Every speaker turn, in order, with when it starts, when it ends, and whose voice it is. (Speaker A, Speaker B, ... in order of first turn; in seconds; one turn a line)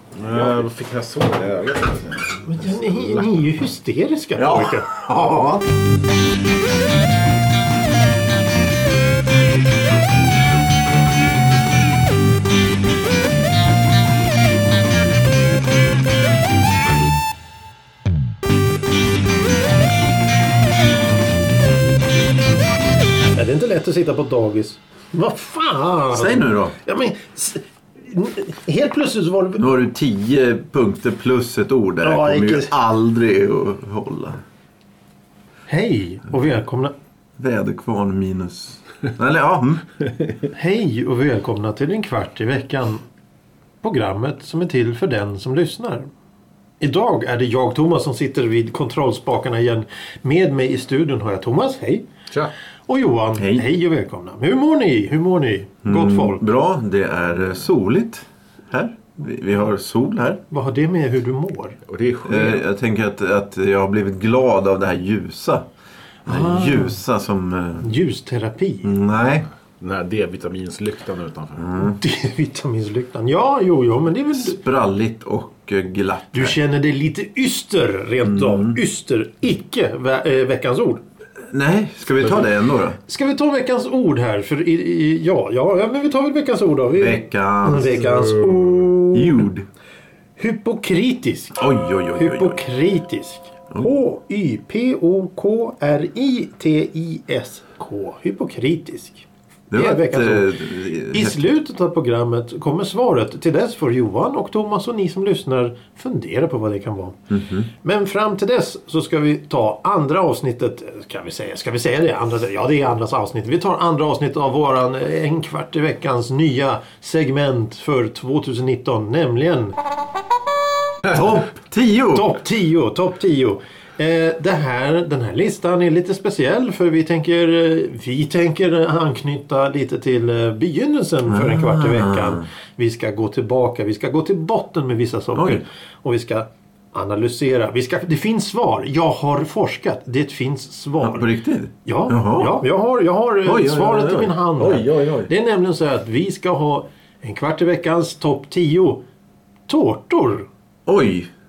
Speaker A: 0.2-3.4
Speaker B: 2.4-4.9
Speaker C: 4.3-5.7
Speaker B: 23.3-29.6
Speaker C: 26.1-26.7
Speaker C: 29.6-34.4
Speaker B: 32.0-32.7
Speaker B: 35.7-36.9
Speaker C: 37.4-39.9
Speaker B: 40.5-43.0
Speaker B: 43.8-46.1
Speaker B: 46.8-52.0
Speaker B: 52.9-56.4
Speaker C: 53.4-53.7
Speaker C: 55.8-60.4
Speaker B: 60.5-61.8
Speaker A: 61.9-62.6
Speaker C: 62.2-65.7
Speaker C: 66.2-67.9
Speaker B: 66.3-67.0
Speaker B: 67.8-68.9
Speaker C: 68.8-69.5
Speaker A: 69.8-71.7
Speaker C: 71.6-72.0
Speaker B: 71.8-74.6
Speaker C: 74.3-76.5
Speaker B: 76.3-81.0
Speaker C: 78.2-78.8
Speaker C: 81.5-83.0
Speaker B: 83.1-89.4
Speaker C: 87.0-88.3
Speaker C: 89.1-89.7
Speaker B: 90.4-91.6
Speaker C: 91.5-92.6
Speaker B: 92.1-100.5
Speaker C: 99.7-101.5
Speaker B: 101.1-107.2
Speaker C: 107.3-107.7
Speaker B: 107.8-119.8
Speaker C: 121.1-122.3
Speaker B: 122.1-141.3
Speaker C: 131.3-132.4
Speaker C: 135.3-135.6
Speaker C: 141.0-142.6
Speaker B: 141.8-149.0
Speaker C: 143.4-145.3
Speaker B: 149.7-150.5
Speaker C: 150.9-151.3